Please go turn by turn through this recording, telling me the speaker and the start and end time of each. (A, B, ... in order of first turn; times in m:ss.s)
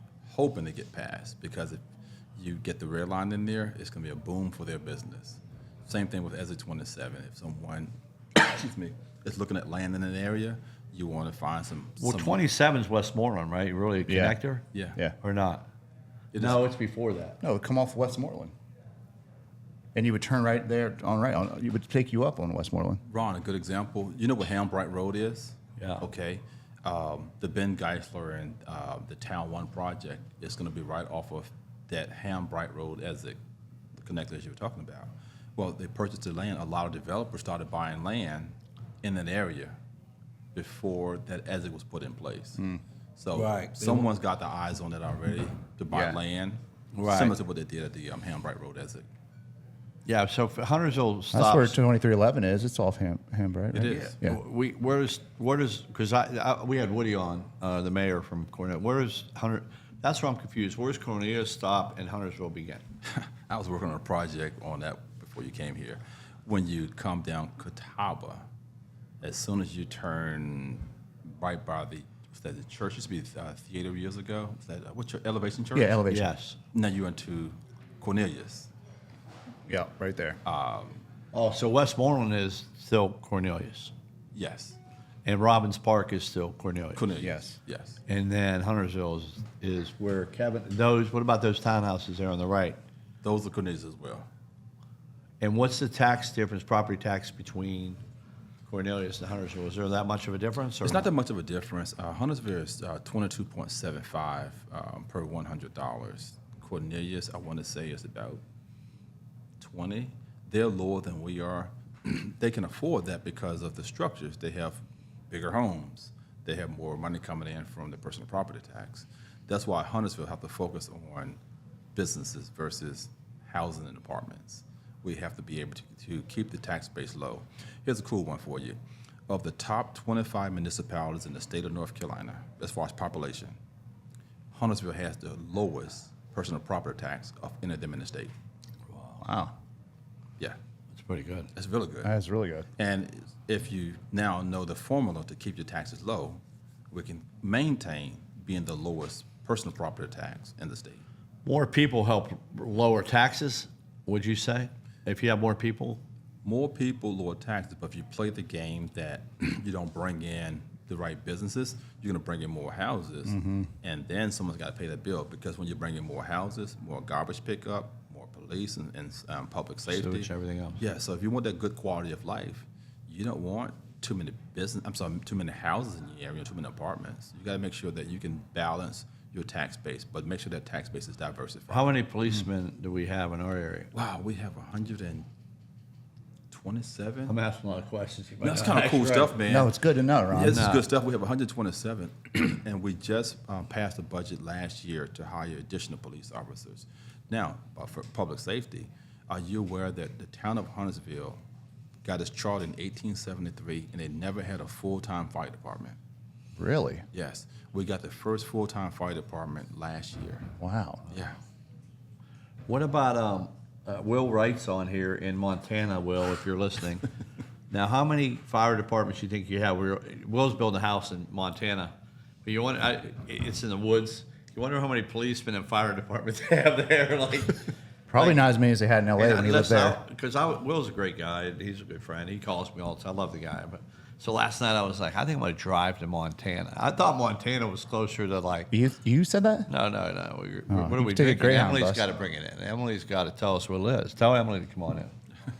0:00.2-0:01.8 A
0:02.4-0:12.4 A
0:12.0-0:14.6 B
0:14.1-0:14.4 C
0:14.7-0:15.0 A
0:15.2-0:15.6 B
0:16.3-0:16.7 A
0:16.4-0:17.4 B
0:17.4-0:18.5 C
0:19.9-0:23.0 C
0:23.0-0:33.4 A
0:25.8-0:26.0 B
0:34.0-0:39.7 A
0:40.5-0:42.6 A
0:43.2-0:49.0 A
0:43.4-0:43.7 B
0:45.9-0:46.2 C
0:46.9-0:47.4 B
0:50.0-0:51.8 B
0:51.3-0:54.4 C
0:53.7-0:54.1 A
0:53.9-1:02.8 B
1:03.1-1:08.4 A
1:09.2-1:16.0 A
1:15.7-1:16.3 C
1:16.1-1:16.6 B
1:16.7-1:18.7 A
1:19.7-1:20.4 C
1:20.4-1:21.0 A
1:21.3-1:23.9 B
1:24.3-1:24.8 A
1:25.2-1:27.0 B
1:27.0-1:28.0 A
1:27.2-1:27.6 C
1:28.1-1:32.8 B
1:33.2-1:34.3 A
1:35.4-1:38.0 B
1:38.6-1:41.1 B
1:40.8-1:48.4 A
1:49.6-2:01.4 A
2:01.9-2:08.8 A
2:09.3-2:13.6 A
2:14.5-2:18.3 A
2:19.1-2:19.5 C
2:20.9-2:21.5 B
2:21.5-2:22.1 A
2:22.0-2:22.7 C
2:22.8-2:31.0 A
2:31.4-2:36.0 B
2:36.4-3:02.0 A
2:43.2-2:43.7 C
2:49.9-2:50.8 B
3:01.7-3:03.9 B
3:03.9-3:05.2 A
3:06.5-3:07.3 A
3:07.3-3:09.4 B
3:08.4-3:09.7 A
3:09.5-3:10.7 C
3:10.3-3:21.4 A
3:10.5-3:10.9 B
3:22.0-3:26.0 A
3:26.6-3:27.0 C
3:27.1-3:30.5 A
3:30.6-3:31.0 C
3:31.1-3:31.4 A
3:32.7-3:37.1 B
3:37.7-3:41.9 B
3:42.4-3:48.4 B
3:48.1-3:50.0 C
3:49.2-3:58.7 B
3:58.7-3:59.7 C
3:59.7-4:05.1 B
4:00.7-4:02.1 C